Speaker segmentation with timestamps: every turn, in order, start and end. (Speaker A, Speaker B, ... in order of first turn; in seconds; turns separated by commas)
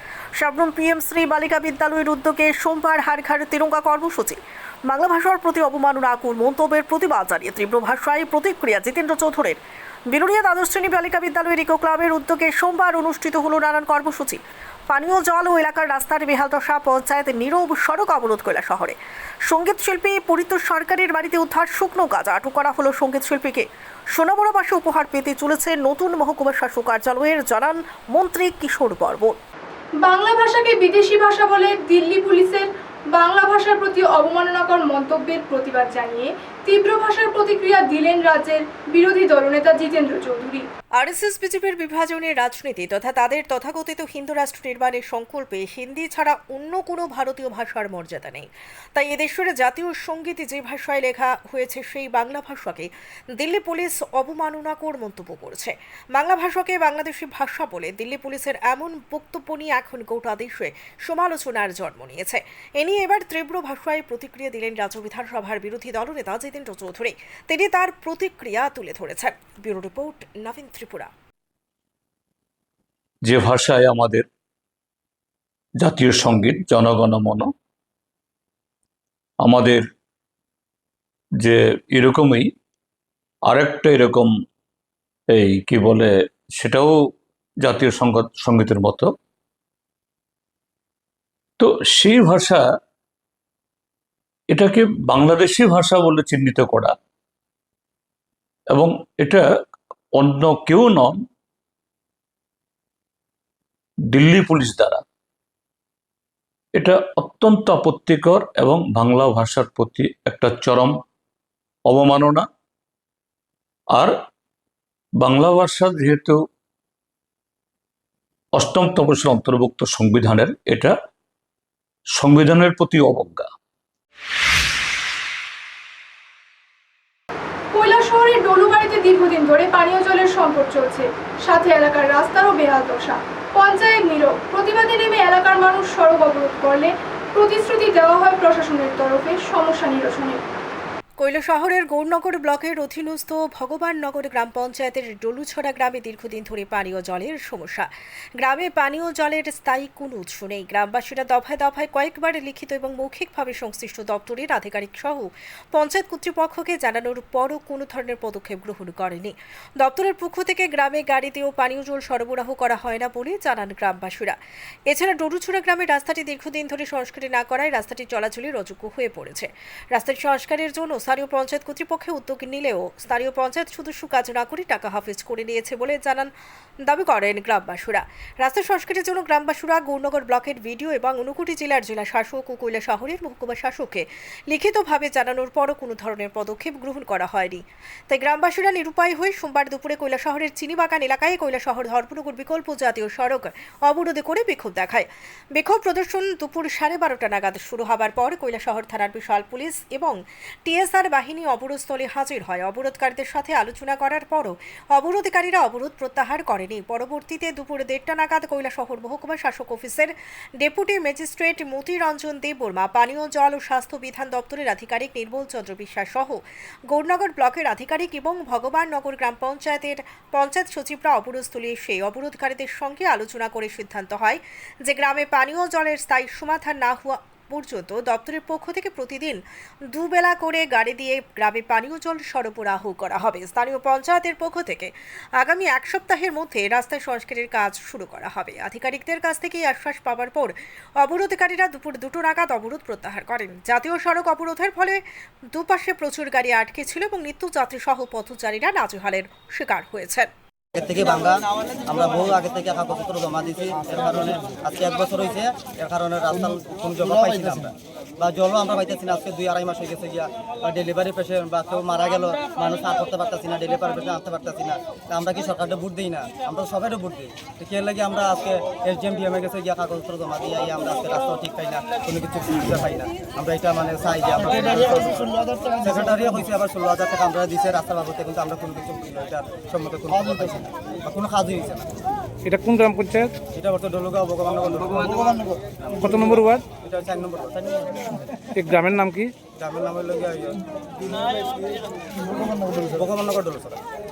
Speaker A: 0.4-9.6, Speaker A: 10.1-19.0, Speaker A: 19.5-29.4, Speaker B: 30.0-40.6, Speaker A: 41.0-71.1, Speaker C: 73.2-74.3, Speaker C: 75.8-77.5, Speaker C: 79.4-79.8, Speaker C: 81.4-82.5, Speaker C: 83.5-84.3, Speaker C: 85.3-89.1, Speaker C: 91.6-92.6, Speaker C: 94.5-96.9, Speaker C: 98.7-99.4, Speaker C: 100.2-101.2, Speaker C: 104.1-105.0, Speaker C: 106.8-111.0, Speaker C: 111.9-112.5, Speaker C: 115.2-116.4, Speaker C: 118.5-120.9, Speaker C: 122.2-123.5, Speaker B: 127.7-140.4, Speaker A: 141.2-147.9, Speaker A: 148.4-164.4, Speaker A: 164.9-176.3, Speaker A: 176.9-200.2, Speaker A: 200.7-229.4, Speaker A: 229.9-245.0, Speaker A: 245.5-250.3, Speaker D: 250.8-281.9, Speaker E: 282.4-283.3, Speaker D: 283.5-288.0, Speaker E: 286.0-286.6, Speaker E: 288.5-289.3, Speaker D: 289.6-290.6, Speaker D: 292.8-293.8